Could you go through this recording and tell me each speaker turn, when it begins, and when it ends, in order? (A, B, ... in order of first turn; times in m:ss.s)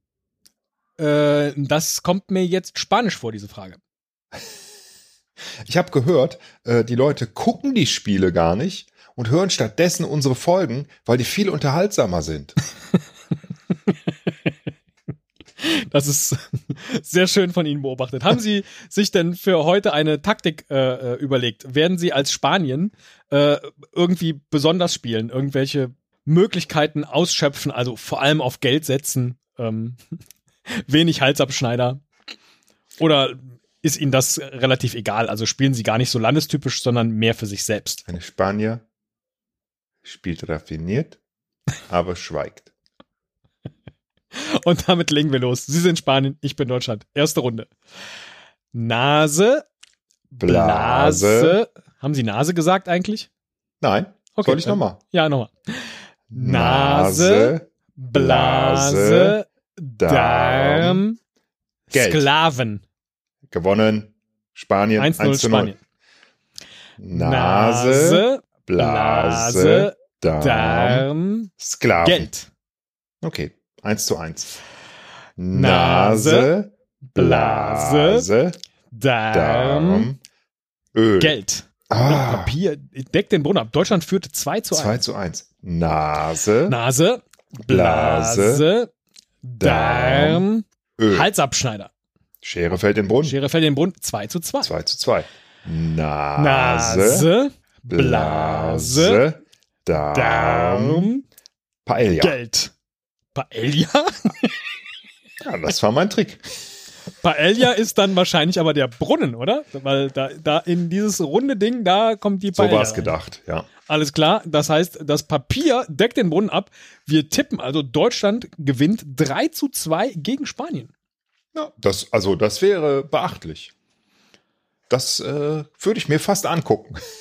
0:01.0-0:03.8 A
0:05.6-0:12.5 B
0:15.6-0:30.0 A
0:30.7-0:32.0 A
0:33.0-0:38.0 A
0:38.1-0:38.8 B
0:40.0-0:41.2 B
0:41.9-0:42.7 B
0:44.3-0:47.7 A
0:48.7-0:49.6 A
0:50.3-0:53.3 A
0:50.4-0:51.6 B
0:53.8-0:55.0 B
0:54.4-1:01.2 A
0:56.3-0:59.4 B
1:00.0-1:01.0 B
1:01.9-1:02.8 A
1:01.9-1:02.3 B
1:03.5-1:05.7 B
1:05.0-1:05.8 A
1:07.0-1:11.1 B
1:07.1-1:11.5 A
1:11.6-1:12.3 B
1:12.0-1:12.5 A
1:13.2-1:14.6 B
1:15.4-1:18.6 B
1:15.5-1:16.5 A
1:17.1-1:18.2 A
1:18.9-1:20.1 A
1:19.3-1:20.2 B
1:20.9-1:21.4 B
1:21.2-1:25.0 A
1:21.9-1:22.6 B
1:24.7-1:26.8 B
1:26.7-1:28.9 A
1:27.6-1:28.6 B
1:29.4-1:31.9 A
1:29.6-1:30.4 B
1:31.0-1:31.3 B
1:32.4-1:33.4 B
1:33.2-1:34.7 A
1:34.6-1:37.3 B
1:36.4-1:39.2 A
1:37.9-1:41.1 B
1:40.0-1:41.2 A
1:41.8-1:42.4 B
1:42.2-1:42.7 A
1:43.3-1:44.6 A
1:45.4-1:46.4 B
1:47.2-1:53.2 A
1:52.5-1:53.7 B
1:53.8-2:00.9 A
2:01.5-2:03.7 B
2:04.9-2:07.0 B